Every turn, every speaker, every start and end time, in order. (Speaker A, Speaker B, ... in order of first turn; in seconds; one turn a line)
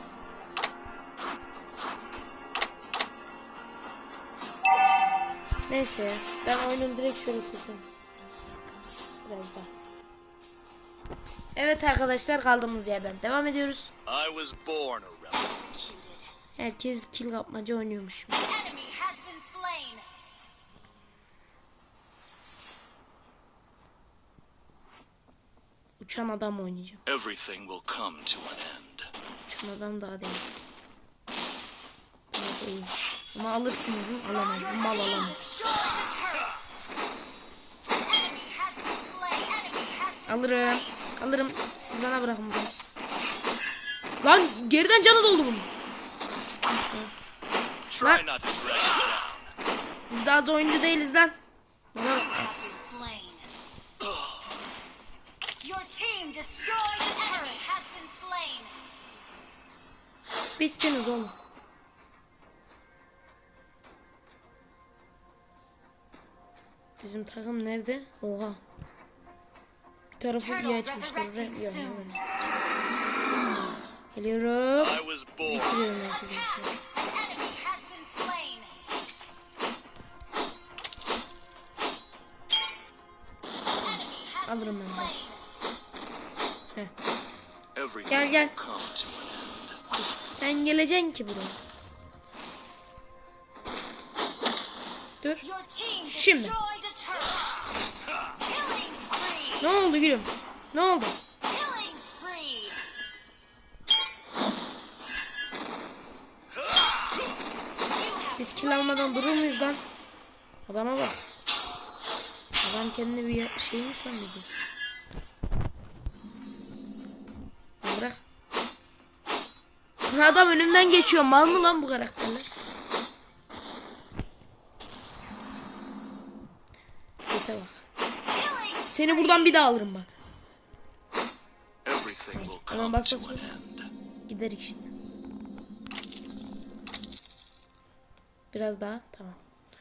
Speaker A: 5.7-8.0
Speaker A: 9.2-9.7
Speaker A: 11.6-13.9
Speaker B: 14.1-15.6
Speaker C: 15.5-16.3
Speaker A: 16.6-18.4
Speaker C: 18.4-20.1
Speaker A: 26.0-27.0
Speaker B: 27.1-29.1
Speaker A: 29.5-30.4
Speaker A: 32.3-35.4
Speaker C: 34.4-36.7
Speaker C: 37.9-41.0
Speaker A: 40.3-42.8
Speaker A: 44.2-45.7
Speaker A: 46.8-47.1
Speaker B: 47.9-49.5
Speaker A: 50.1-51.4
Speaker A: 51.9-52.8
Speaker C: 52.1-53.5
Speaker B: 54.0-54.3
Speaker C: 55.6-58.7
Speaker A: 60.6-61.3
Speaker A: 67.0-68.6
Speaker A: 70.2-72.2
Speaker C: 70.4-72.2
Speaker A: 73.5-76.8
Speaker B: 74.8-75.8
Speaker C: 76.8-78.7
Speaker C: 83.8-85.5
Speaker A: 84.5-85.1
Speaker B: 87.8-89.8
Speaker A: 88.1-88.6
Speaker A: 90.0-91.6
Speaker C: 95.4-97.8
Speaker A: 96.1-96.6
Speaker C: 98.4-99.7
Speaker A: 99.6-101.2
Speaker C: 101.5-102.8
Speaker C: 107.9-109.8
Speaker A: 108.4-109.8
Speaker A: 110.7-111.2
Speaker A: 112.6-114.5
Speaker A: 117.8-118.2
Speaker A: 120.1-122.5
Speaker C: 120.2-121.6
Speaker A: 127.3-127.8
Speaker C: 128.3-129.6
Speaker A: 128.9-130.2
Speaker B: 131.8-133.9
Speaker A: 132.3-133.5
Speaker A: 134.3-134.9
Speaker A: 138.5-139.4